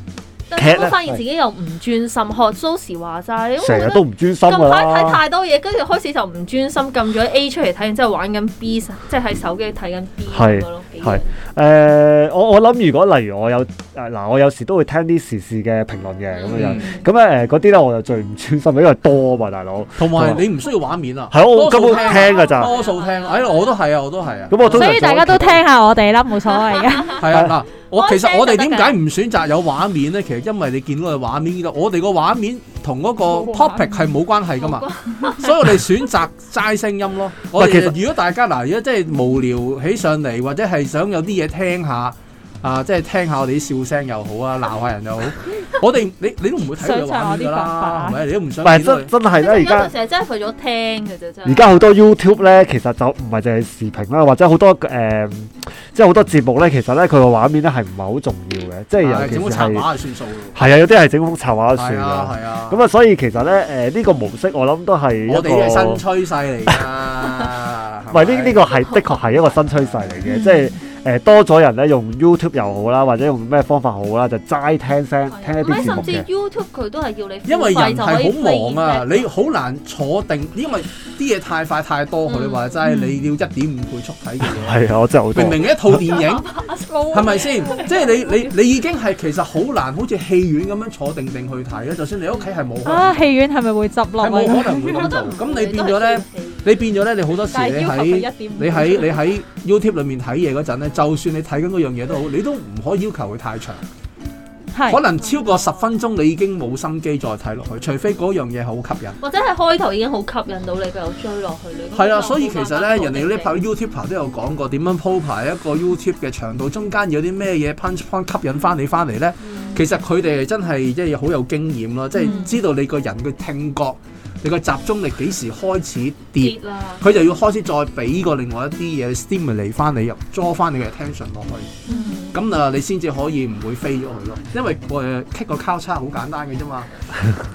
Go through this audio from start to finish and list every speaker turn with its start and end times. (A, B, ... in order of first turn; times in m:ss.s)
0:00.5-0:11.3 A
0:00.6-0:01.2 B
0:03.6-0:05.2 B
0:10.3-0:20.4 B
0:16.3-0:17.0 A
0:16.5-0:17.0 C
0:20.0-0:25.0 C
0:21.3-0:22.8 B
0:21.7-0:23.8 A
0:24.5-0:25.6 B
0:24.7-0:27.2 D
0:26.5-0:27.2 A
0:27.2-0:49.1 C
0:27.3-0:27.6 B
0:27.9-0:29.0 A
0:33.3-0:34.1 D
0:34.6-0:35.8 A
0:37.6-0:38.0 B
0:46.6-0:48.2 D
0:48.6-0:49.9 B
0:49.2-0:51.9 A
0:51.5-0:59.9 B
0:59.0-1:00.6 C
1:00.6-1:06.0 B
1:01.8-1:02.8 C
1:05.3-1:08.7 C
1:08.1-1:16.3 B
1:08.8-1:09.3 A
1:10.2-1:10.7 D
1:15.4-1:19.3 A
1:15.7-1:16.1 C
1:17.5-1:26.5 C
1:22.3-1:22.8 A
1:22.8-1:23.3 D
1:24.4-1:26.0 B
1:26.0-1:28.5 A
1:26.9-1:27.9 D
1:27.1-1:33.2 C
1:32.8-1:35.1 D
1:34.2-1:43.8 C
1:34.7-1:36.9 A
1:37.5-1:39.2 D
1:44.7-1:45.0 D
1:44.9-1:49.2 C
1:45.2-1:45.9 A
1:49.2-1:53.6 A
1:51.9-2:11.7 C
1:59.5-1:59.8 A
2:02.2-2:02.6 A
2:06.4-2:07.1 A
2:11.9-2:12.4 A
2:11.9-2:12.2 D
2:12.3-2:16.9 C